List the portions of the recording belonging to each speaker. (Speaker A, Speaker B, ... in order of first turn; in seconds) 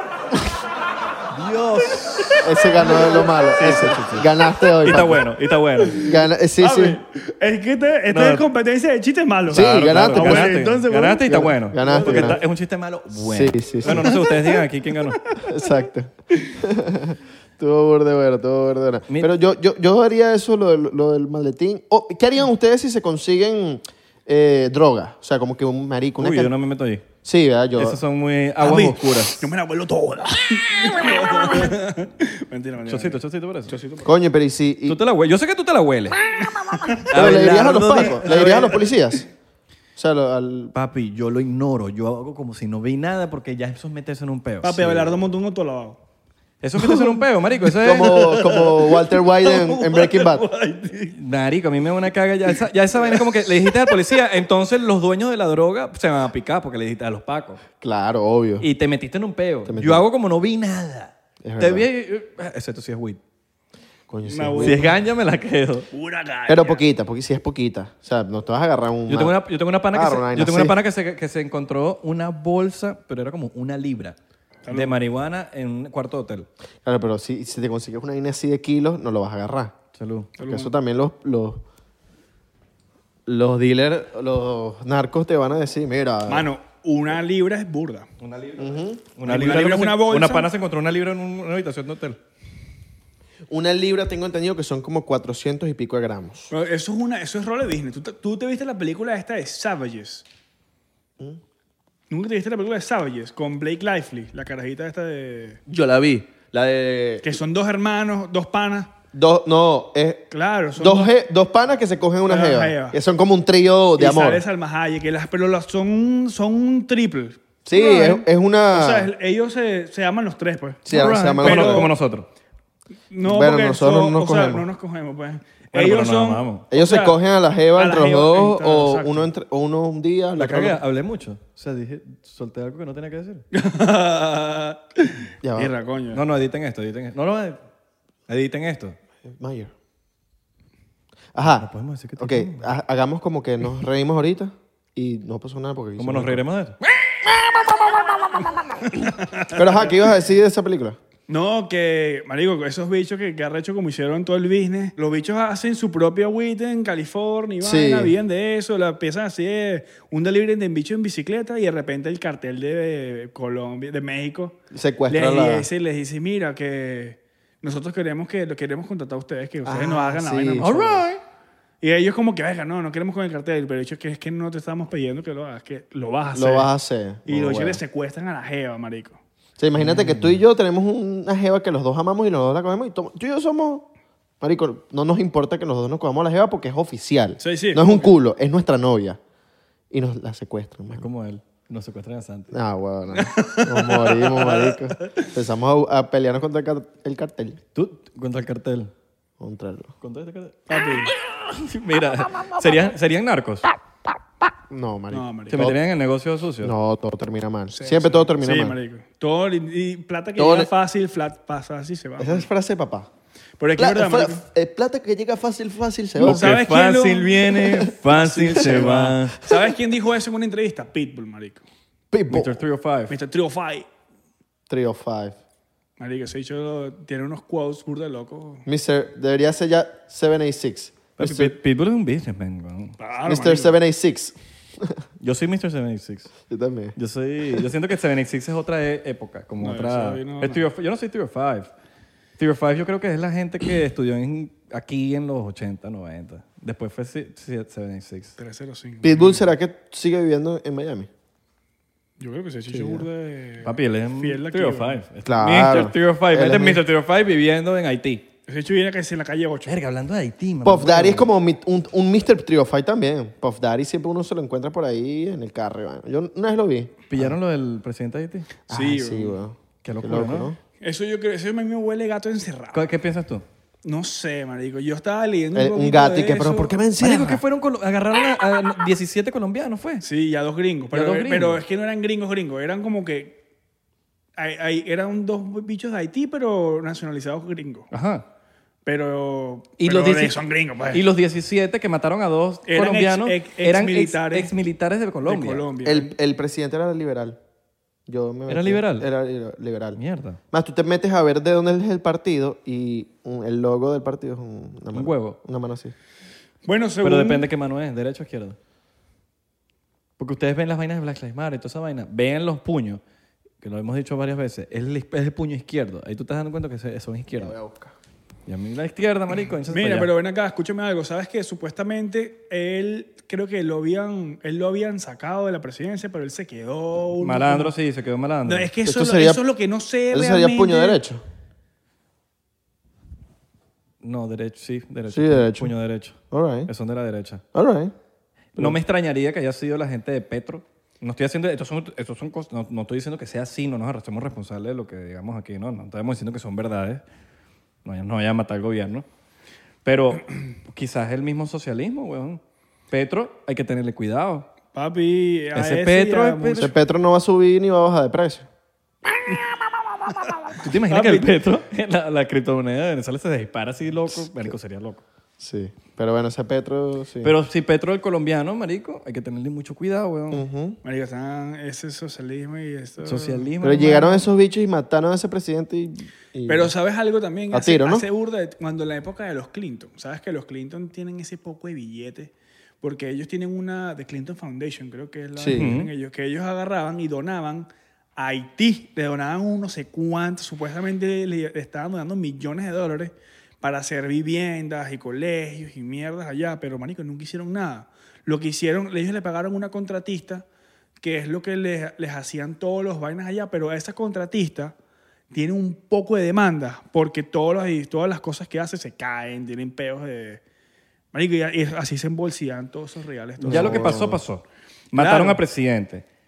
Speaker A: 1.3-4.2, 4.8-6.0, 8.1-8.4, 9.5-15.3, 26.2-27.1, 27.8-29.5, 32.9-33.8, 34.9-36.2, 37.1-38.7, 40.7-45.3, 46.6-48.4, 51.1-57.6, 58.6-63.2, 64.6-65.9, 69.1-74.2, 74.7-76.5, 79.9-80.3, 88.2-92.2, 120.9-122.3, 125.7-126.6, 130.4-133.4, 136.1-137.6, 138.3-138.9, 141.4-142.7, 146.0-146.8, 170.6-171.2, 179.8-180.3, 190.9-192.6, 197.7-198.9, 200.0-203.7, 205.5-206.7, 216.2-219.4, 222.3-223.2, 231.2-232.9, 235.2-236.3, 236.9-241.7, 242.4-248.4, 253.6-258.2, 259.6-261.3, 267.1-268.5, 269.8-270.5, 272.7-273.4, 277.0-280.1, 280.9-281.6, 287.9-288.2, 289.8-295.7, 298.5-299.1, 300.0-300.4, 304.9-305.4, 307.0-308.6, 310.2-313.0, 313.6-317.6, 318.5-320.1, 327.2-328.7, 334.0-337.4, 338.6-347.0, 347.8-349.1, 349.8-354.5, 355.6-356.7, 360.6-365.0, 367.2-370.4, 373.0-374.3, 385.5-385.9, 413.4-416.1
Speaker B: 2.4-5.3, 6.0-7.0, 9.5-10.5, 11.3-12.4, 13.1-14.2, 15.4-26.5, 27.2-28.0, 34.0-35.0, 37.1-39.3, 40.0-40.7, 47.7-50.4, 57.8-58.7, 59.6-60.0, 61.4-61.9, 64.1-65.0, 66.5-69.4, 69.9-70.8, 76.8-79.7, 80.4-81.6, 83.2-86.5, 88.6-89.0, 93.5-96.5, 105.7-107.4, 109.1-114.4, 117.6-119.1, 120.9-121.9, 123.2-124.7, 126.7-130.8, 135.4-135.7, 139.2-139.7, 141.3-146.4, 147.7-148.1, 149.5-151.0, 157.6-158.1, 164.7-165.7, 169.6-170.7, 176.3-177.8, 179.6-183.9, 184.4-189.2, 189.9-191.1, 192.5-197.6, 199.4-199.9, 204.7-205.8, 206.6-208.8, 210.4-210.7, 212.2-213.1, 213.8-216.5, 222.1-222.6, 224.7-225.4, 228.7-231.6, 233.2-235.0, 236.5-236.9, 249.0-251.1, 252.7-253.1, 255.2-256.8, 260.6-267.3, 268.7-270.6, 275.5-277.4, 295.8-297.4, 298.1-300.0, 300.5-305.9, 317.3-317.9, 328.8-329.4, 330.1-331.2, 335.1-335.7, 336.3-336.7, 337.5-337.9, 356.6-358.5, 364.1-364.5, 365.4-367.3, 370.3-370.8, 373.6-376.7, 377.5-378.1, 385.4-385.7, 413.4-414.2
Speaker C: 2.8-3.9, 5.9-12.4, 13.9-14.6, 28.6-34.1, 36.5-37.0, 37.9-38.8, 44.6-46.0, 48.0-51.1, 53.0-54.0, 64.2-65.0, 65.9-66.8, 74.7-75.0, 80.4-80.7, 86.2-88.1, 89.2-90.5, 96.5-100.2, 102.1-105.6, 107.2-108.9, 110.3-111.1, 112.2-113.0, 114.0-121.9, 123.1-127.2, 127.7-129.3, 133.5-136.2, 148.9-149.9, 151.3-164.6, 165.1-171.0, 171.8-176.7, 177.2-179.2, 187.4-188.1, 193.2-195.2, 200.7-201.1, 205.1-205.6, 207.7-212.5, 213.6-214.4, 216.2-221.6, 223.1-223.9, 226.0-228.7, 233.0-233.8, 239.6-240.6, 248.4-249.4, 252.2-255.0, 258.5-259.7, 268.7-269.4, 270.8-272.9, 273.8-276.8, 280.0-283.4, 284.4-287.9, 288.9-291.0, 292.7-294.5, 295.2-296.1, 306.6-307.4, 319.7-327.7, 328.4-331.0, 354.7-356.7, 360.9-361.3, 370.8-373.5, 376.5-400.4, 401.0-404.8, 405.3-410.4, 411.1-414.0, 414.9-415.4